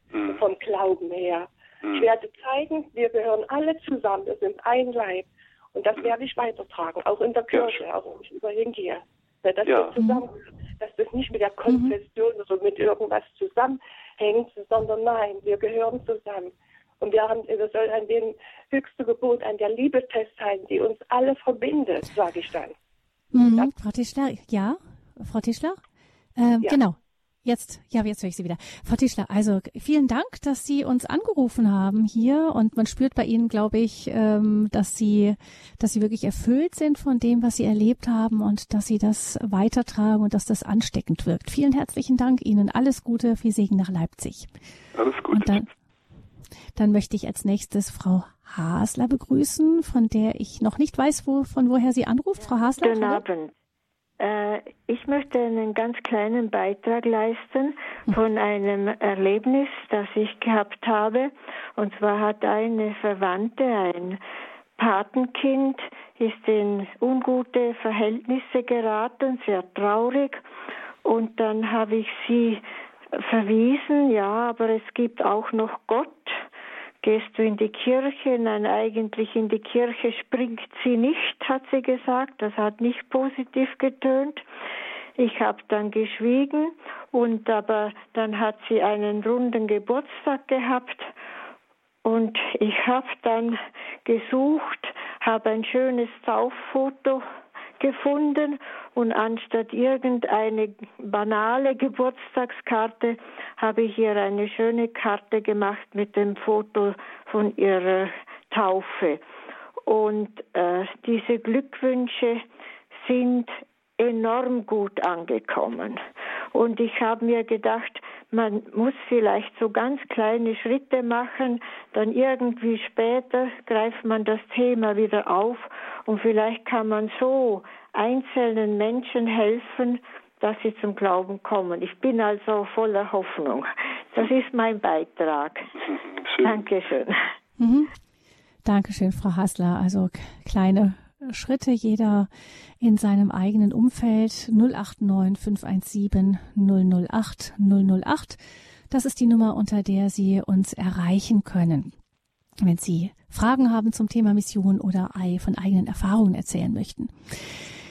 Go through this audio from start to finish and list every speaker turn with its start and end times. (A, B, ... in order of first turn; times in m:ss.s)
0:00.1-0:00.4 A
0:00.3-0:22.8 B
0:07.5-0:07.8 A
0:09.6-0:10.0 A
0:11.7-0:12.0 C
0:23.3-0:25.8 C
0:26.4-0:44.5 C
0:44.9-0:45.7 A
0:45.3-0:45.7 C
0:46.8-0:53.2 C
0:52.8-0:53.5 D
0:54.2-1:04.2 D
1:04.8-1:10.4 D
1:11.0-1:12.6 D
1:13.2-1:16.5 D
1:17.0-1:24.4 D
1:25.2-1:31.1 D
1:32.0-1:37.2 D
1:37.8-1:49.2 D
1:49.9-1:52.4 D
1:53.0-2:15.7 D
2:16.2-2:16.6 A
2:16.4-2:17.3 D
2:17.6-2:17.9 C
2:18.6-2:22.3 C
2:22.8-2:28.4 C
2:28.9-2:31.9 C
2:32.6-2:37.4 C